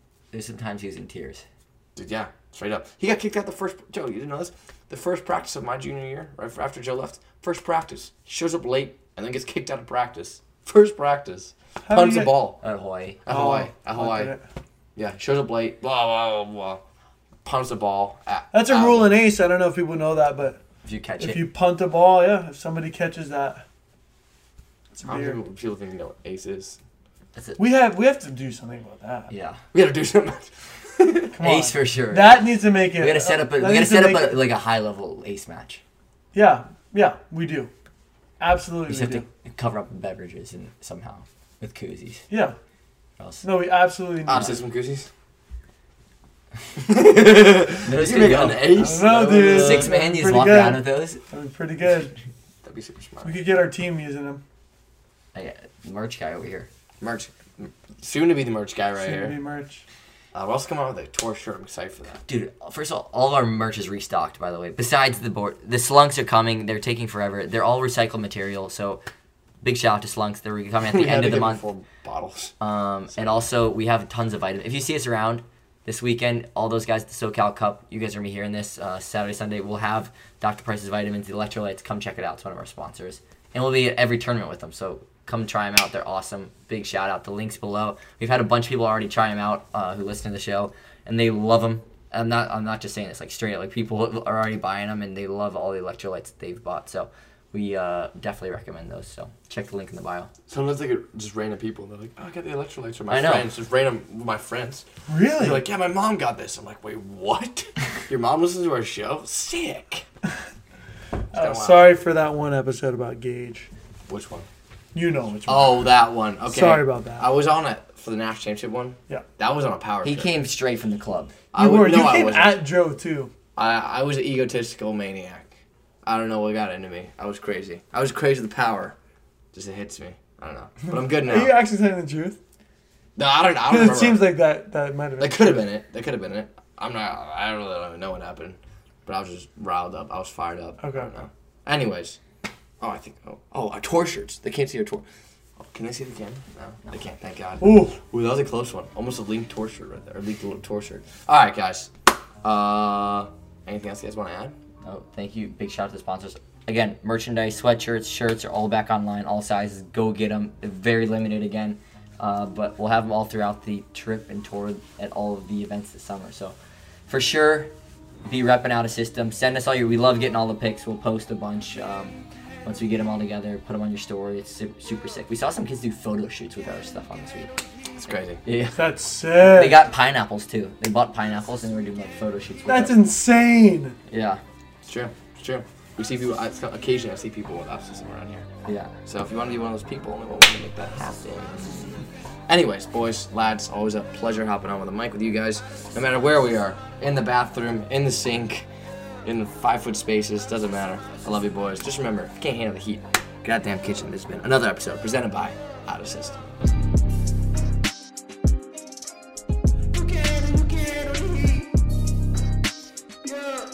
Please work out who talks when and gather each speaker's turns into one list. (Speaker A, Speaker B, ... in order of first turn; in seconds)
Speaker A: 0.3-1.4, 12.6-13.2, 20.8-21.5, 29.3-29.6, 31.4-35.8, 38.9-42.2, 43.2-43.4, 44.3-44.6, 47.8-51.2, 55.3-56.7, 62.2-69.0, 69.6-71.6, 72.6-100.3, 103.1-103.5, 120.0-121.3, 154.8-166.6, 167.1-167.7, 168.2-177.5, 178.4-178.8, 179.4-182.9, 184.1-184.4, 188.7-188.9
Speaker B: 1.9-12.6, 13.2-14.3, 14.9-16.8, 17.4-19.1, 25.0-26.8, 29.7-31.3, 44.2-45.1, 46.8-50.0, 52.6-53.4, 57.0-59.4, 60.3-62.2, 70.8-72.5, 73.2-73.4, 100.5-110.0, 111.3-111.9, 114.1-114.5, 115.5-120.3, 121.5-122.6, 123.5-128.9, 129.5-131.6, 133.2-134.3, 135.2-142.2, 142.8-145.1, 145.6-151.9, 152.4-154.6, 177.9-178.4, 184.8-188.5, 189.1-191.9, 192.5-198.7, 199.2-206.5
Speaker C: 11.8-12.4, 13.3-14.4, 18.5-20.6, 21.2-23.6, 24.9-25.4, 27.6-29.3, 31.3-34.4, 36.3-37.7, 38.4-39.2, 42.3-42.5, 43.4-44.6, 48.7-52.1, 53.2-54.4, 59.0-59.8, 105.1-105.6, 111.3-113.7, 114.9-115.9, 116.5-117.3, 121.5-123.3, 131.2-132.4, 133.7-135.6, 140.8-141.1, 147.6-148.0, 178.7-179.8, 182.7-184.0, 209.9-211.7